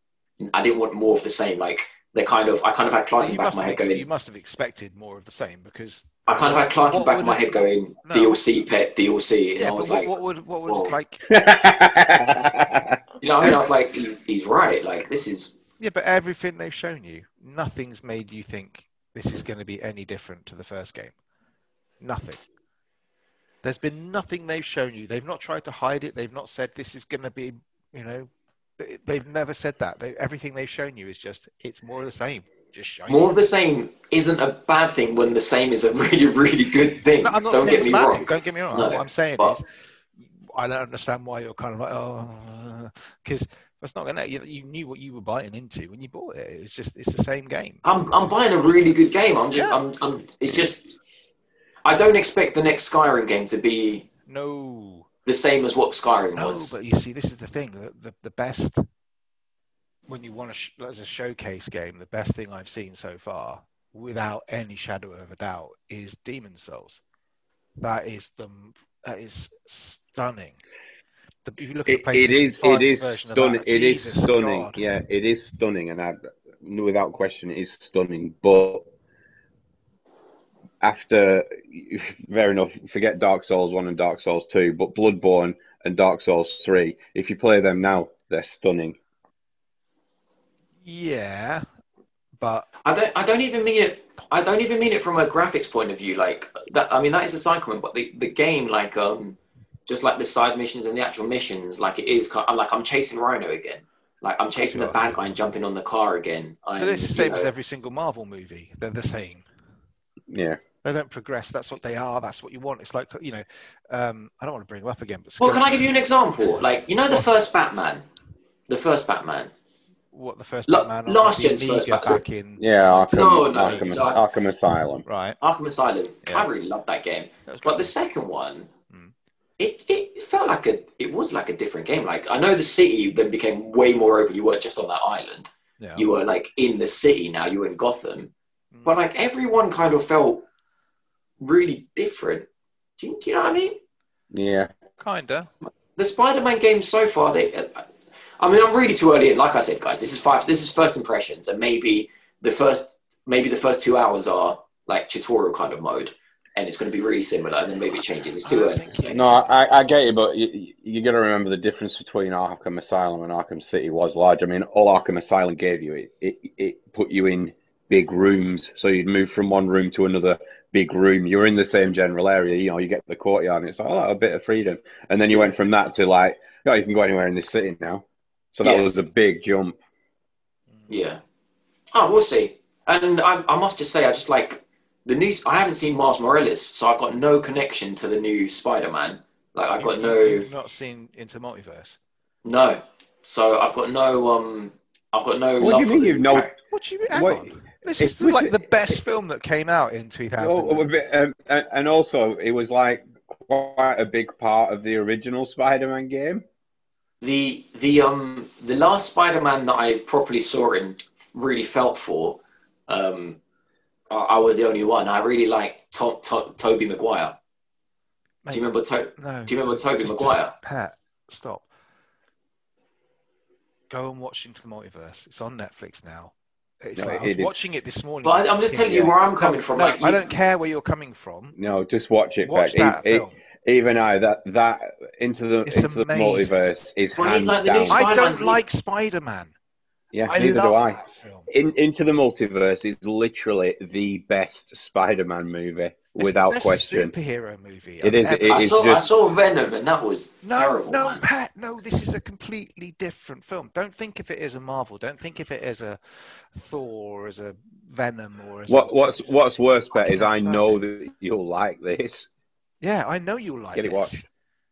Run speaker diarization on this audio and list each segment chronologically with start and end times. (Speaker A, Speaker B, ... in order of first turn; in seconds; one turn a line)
Speaker A: 0.4-4.0
Speaker B: 3.2-8.4
Speaker A: 6.3-10.1
Speaker B: 9.6-11.2
Speaker A: 10.7-10.9
Speaker C: 11.3-13.0
Speaker A: 13.2-15.5
Speaker B: 15.8-21.1
Speaker B: 22.0-22.4
Speaker B: 23.6-33.3
Speaker A: 33.1-39.6
Speaker B: 37.2-39.7
Speaker B: 40.2-47.8
Speaker A: 47.8-51.0
Speaker B: 49.5-49.8
Speaker A: 51.9-54.0
Speaker B: 54.3-55.1
Speaker A: 55.3-56.8
Speaker B: 56.4-58.8
Speaker B: 60.1-67.0
Speaker B: 67.8-70.6
Speaker B: 71.5-74.8
Speaker C: 71.9-78.8
Speaker C: 80.8-89.0
Speaker B: 90.8-91.7
Speaker B: 92.4-92.7
Speaker A: 92.8-107.5
Speaker B: 104.6-105.0
Speaker B: 106.8-109.5
Speaker C: 110.3-110.6
Speaker B: 110.8-116.0
Speaker A: 115.4-118.0
Speaker A: 118.7-119.5
Speaker B: 120.1-124.2
Speaker A: 120.7-122.2
Speaker C: 122.6-125.0
Speaker A: 123.1-124.2
Speaker B: 125.0-125.4
Speaker A: 125.4-128.7
Speaker B: 127.5-127.9
Speaker A: 129.6-138.3
Speaker B: 135.8-136.1
Speaker B: 138.7-139.0
Speaker A: 138.8-140.5
Speaker A: 141.4-143.8
Speaker C: 144.3-144.7
Speaker B: 145.0-145.5
Speaker A: 146.0-147.9
Speaker A: 148.4-159.2
Speaker B: 158.4-159.6
Speaker C: 159.1-179.8
Speaker A: 175.3-175.6
Speaker A: 178.6-178.9
Speaker B: 180.8-181.0
Speaker A: 180.9-181.2
Speaker A: 181.9-190.4
Speaker B: 189.8-192.0
Speaker A: 192.4-196.6
Speaker C: 195.6-196.5
Speaker B: 196.7-200.9
Speaker C: 197.1-198.7
Speaker C: 200.4-206.4
Speaker A: 207.2-213.4
Speaker A: 214.1-217.4
Speaker A: 218.5-220.5
Speaker B: 219.2-221.7
Speaker B: 223.9-231.6
Speaker C: 227.0-227.7
Speaker A: 228.2-230.3
Speaker C: 231.6-238.0
Speaker B: 232.4-233.4
Speaker B: 235.7-236.6
Speaker A: 237.2-238.6
Speaker B: 237.9-239.5
Speaker C: 240.1-247.1
Speaker B: 240.3-241.5
Speaker B: 246.2-248.7
Speaker C: 248.0-249.1
Speaker A: 248.5-251.2
Speaker B: 250.4-259.3
Speaker C: 258.7-262.3
Speaker B: 259.9-260.8
Speaker B: 262.8-264.3
Speaker C: 263.7-264.2